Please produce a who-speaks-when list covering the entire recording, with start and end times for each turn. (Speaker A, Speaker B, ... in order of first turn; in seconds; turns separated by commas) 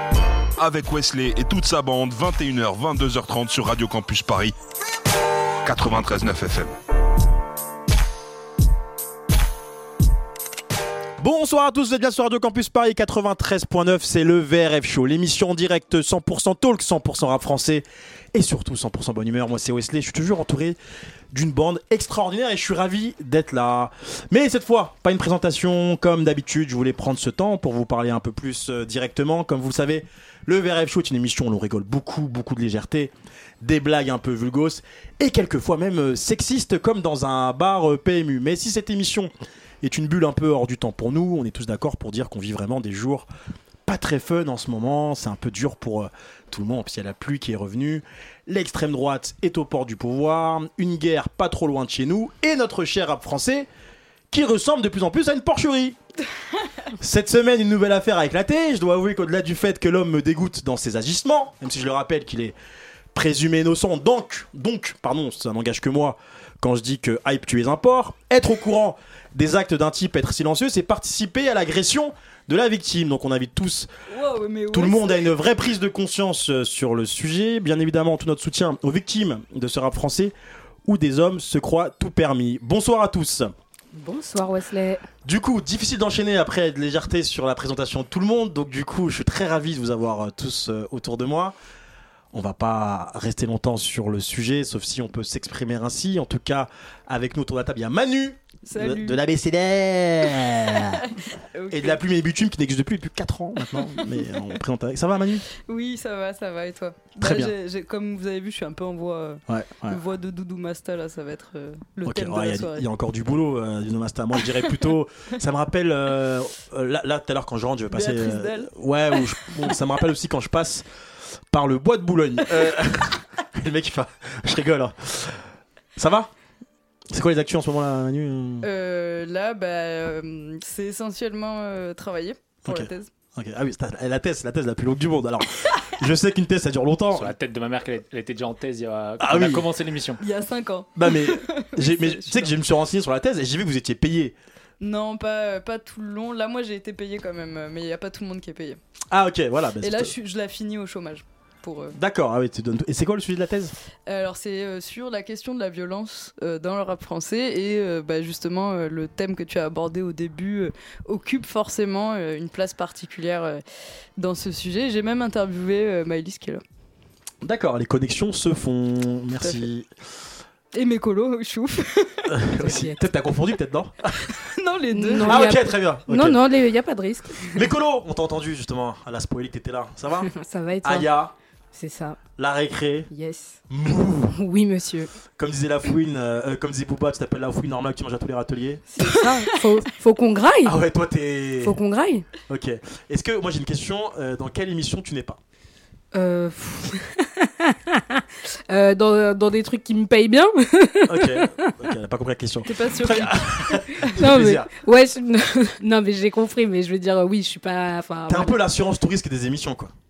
Speaker A: 0.6-4.5, Speaker A: 5.6-6.7, Speaker B: 11.2-20.8, Speaker B: 21.3-39.3, Speaker B: 39.8-43.3, Speaker B: 43.9-53.7, Speaker B: 54.3-56.0, Speaker B: 57.0-62.5, Speaker B: 63.1-73.9, Speaker C: 74.1-75.3, Speaker B: 74.7-80.3, Speaker B: 80.8-83.5, Speaker D: 83.9-85.0, Speaker B: 85.2-91.5, Speaker B: 92.3-101.1, Speaker C: 98.7-99.2, Speaker C: 100.9-102.0, Speaker B: 101.7-105.5, Speaker C: 105.7-112.8, Speaker B: 107.2-107.5, Speaker B: 109.5-110.0, Speaker B: 112.0-120.9, Speaker C: 117.9-118.7, Speaker B: 121.5-126.3, Speaker B: 127.1-128.7, Speaker C: 128.6-133.1, Speaker B: 132.6-137.3, Speaker E: 137.1-140.2, Speaker B: 139.2-139.7, Speaker C: 140.2-142.6, Speaker B: 140.9-144.3, Speaker C: 144.8-148.8, Speaker B: 149.1-150.1, Speaker C: 149.8-151.9, Speaker B: 151.9-153.7, Speaker C: 154.1-163.6, Speaker C: 164.2-166.6, Speaker B: 167.4-169.9, Speaker C: 170.7-172.4, Speaker B: 172.2-174.4, Speaker D: 172.6-173.0, Speaker C: 174.2-175.6, Speaker D: 174.9-177.7, Speaker B: 175.2-176.4, Speaker B: 177.5-180.3, Speaker D: 180.2-181.1, Speaker B: 180.8-181.3, Speaker D: 181.7-182.2, Speaker B: 182.4-183.1, Speaker D: 183.1-183.6, Speaker B: 183.7-184.4, Speaker D: 184.3-185.1, Speaker B: 185.4-188.8, Speaker D: 188.9-190.8, Speaker B: 190.6-191.8, Speaker D: 191.6-192.2, Speaker B: 192.5-195.4, Speaker D: 196.1-201.7, Speaker B: 201.1-204.7, Speaker C: 202.6-204.2, Speaker D: 204.1-208.6, Speaker B: 208.3-209.9